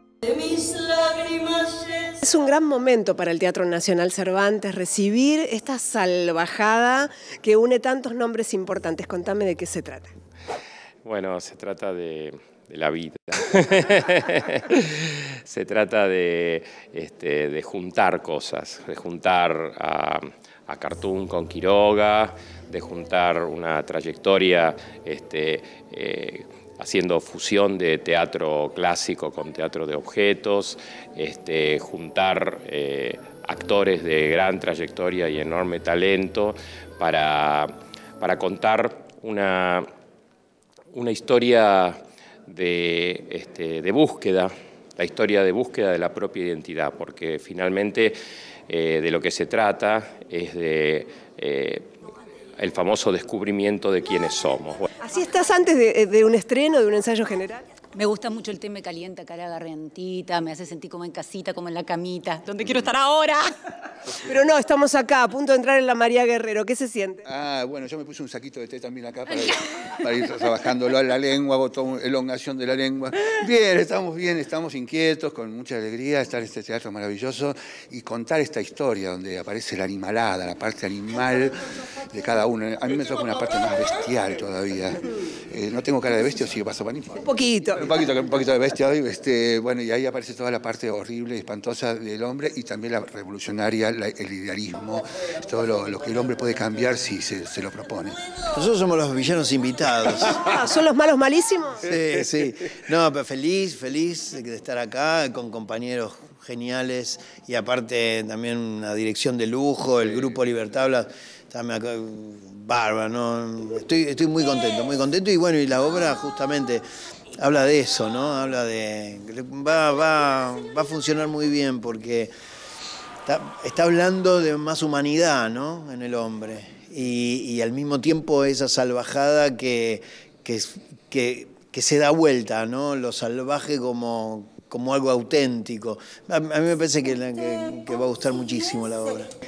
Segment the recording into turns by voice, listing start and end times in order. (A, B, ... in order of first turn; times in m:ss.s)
0:02.0-0:10.1 A
0:11.0-0:39.9 B
0:40.9-0:48.2 B
0:48.7-0:51.8 B
0:52.6-0:54.9 B
0:55.0-0:57.6 A
0:58.0-1:03.5 C
1:04.1-1:07.2 A
1:07.3-1:27.3 D
1:27.2-1:27.8 A
1:27.8-1:38.3 D
1:38.5-1:40.4 E
1:40.3-1:41.9 A
1:41.8-1:56.8 E
1:57.4-2:02.3 E
2:03.3-2:19.3 E